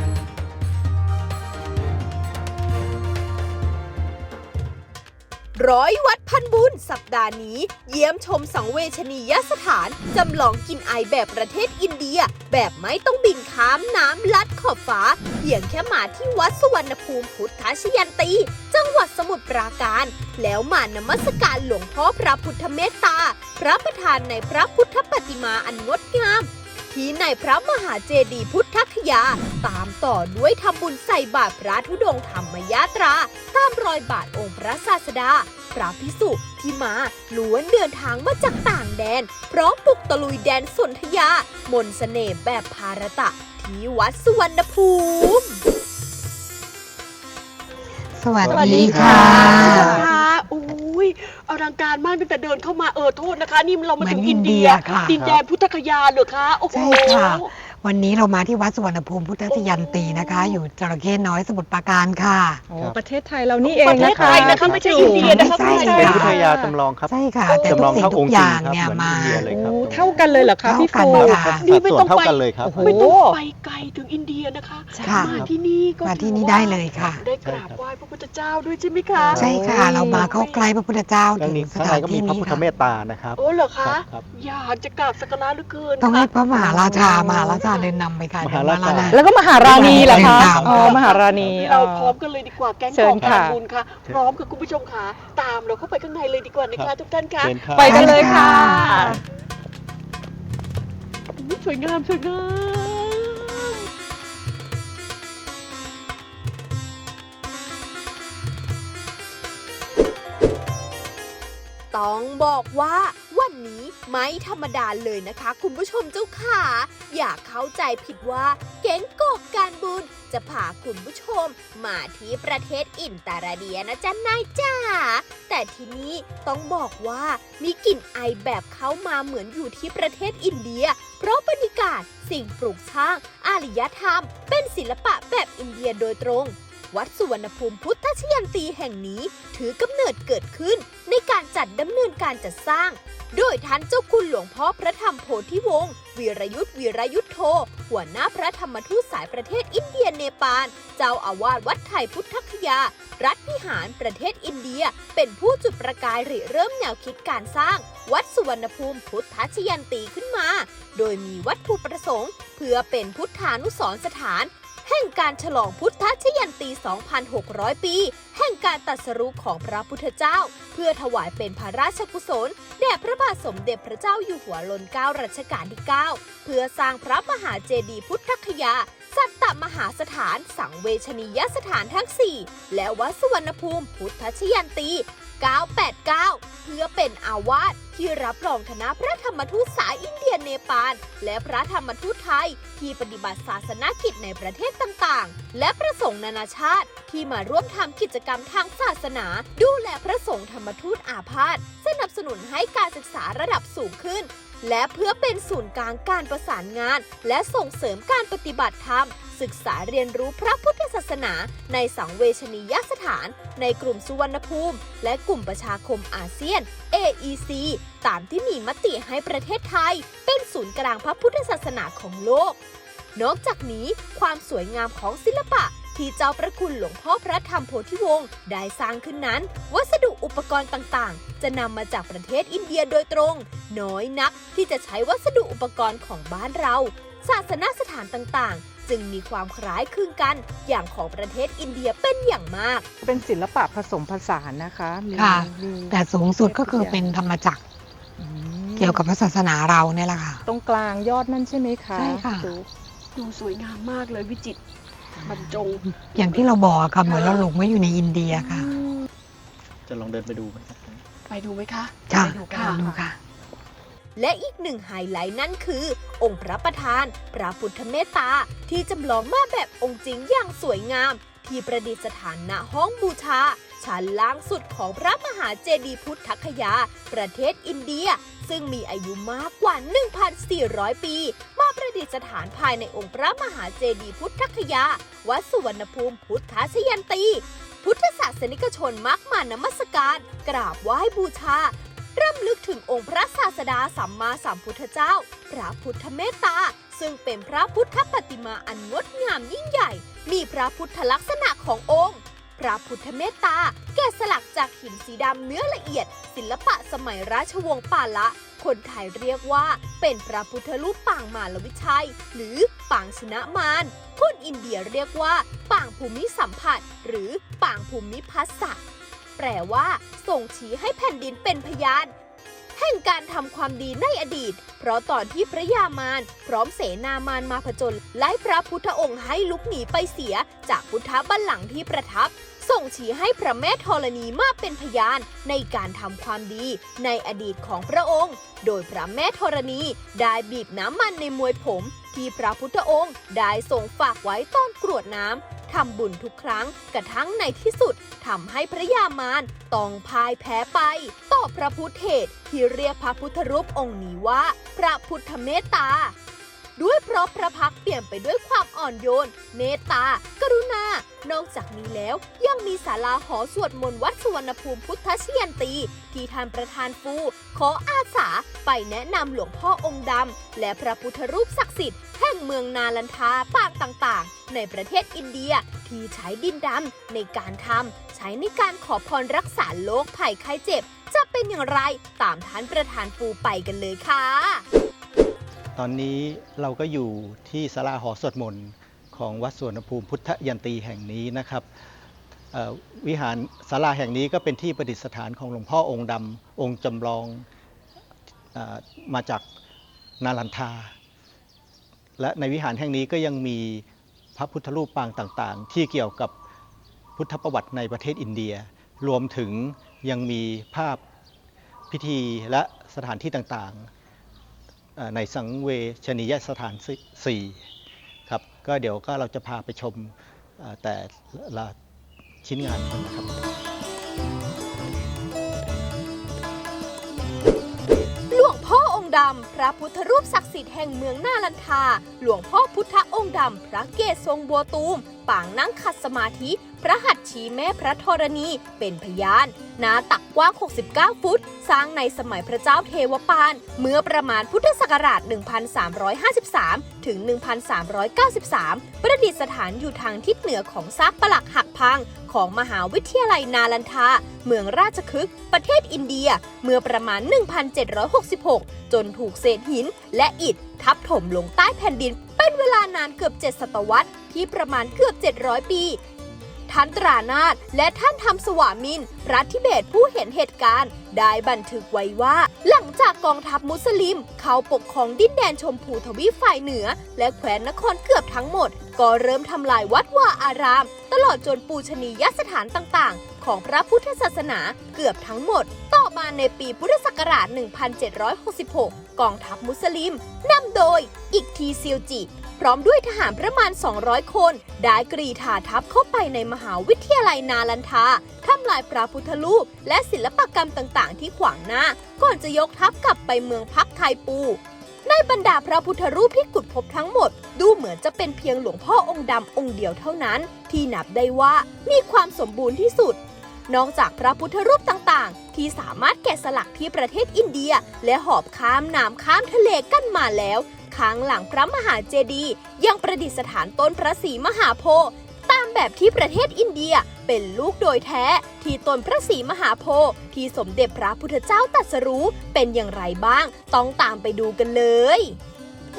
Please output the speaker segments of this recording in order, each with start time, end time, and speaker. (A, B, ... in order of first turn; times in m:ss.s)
0:05.6-0:45.6 A
0:48.2-0:50.1 B
0:48.4-0:50.1 C
0:48.5-0:57.5 D
0:54.0-0:55.2 B
0:55.1-0:55.4 C
0:56.7-1:02.6 B
0:59.5-1:00.6 D
1:02.7-1:06.8 E
1:03.6-1:06.3 D
1:03.8-1:10.2 C
1:05.1-1:06.4 B
1:07.1-1:09.5 B
1:07.4-1:08.1 E
1:09.4-1:11.5 E
1:10.2-1:10.5 D
1:10.6-1:11.6 B
1:11.1-1:20.6 D
1:11.1-1:13.2 C
1:12.6-1:13.4 E
1:15.0-1:15.4 E
1:15.0-1:15.4 B
1:16.0-1:17.2 B
1:16.9-1:17.8 C
1:19.2-1:20.2 E
1:19.3-1:20.3 C
1:19.3-1:22.6 B
1:21.4-1:24.2 C
1:23.4-1:27.9 D
1:26.0-1:30.8 B
1:26.9-1:27.4 E
1:28.4-1:31.6 C
1:29.1-1:32.1 E
1:29.7-1:39.2 D
1:32.9-1:33.6 E
1:36.7-1:38.5 C
1:37.7-1:39.2 E
1:37.8-1:39.0 B
1:41.4-1:43.7 D
1:51.9-3:42.6 A
3:43.1-4:02.8 A
4:03.0-4:07.1 E
4:05.1-4:07.6 B
4:08.2-4:09.0 E
4:08.8-4:10.4 B
4:10.4-4:12.6 E
4:11.9-4:12.5 B
4:13.2-4:14.6 D
4:15.2-4:15.8 D
4:16.1-4:18.7 B
4:17.1-4:17.4 D
4:18.3-4:18.6 D
4:19.8-4:21.0 C
4:21.3-4:23.0 D
4:22.1-4:23.2 B
4:22.7-4:23.0 E
4:24.2-5:18.8 A
5:19.4-5:22.1 A
5:22.8-5:56.1 A
5:56.8-6:24.6 A
6:25.7-6:31.6 C
6:32.5-6:37.4 C
6:38.5-6:39.4 C
6:40.2-6:40.9 C
6:42.2-6:46.3 C
6:47.2-6:51.0 C
6:51.9-6:53.9 C
6:55.0-6:57.6 C
6:58.3-7:01.7 C
7:02.4-7:03.3 C
7:08.3-7:46.0 A
7:46.7-8:55.4 A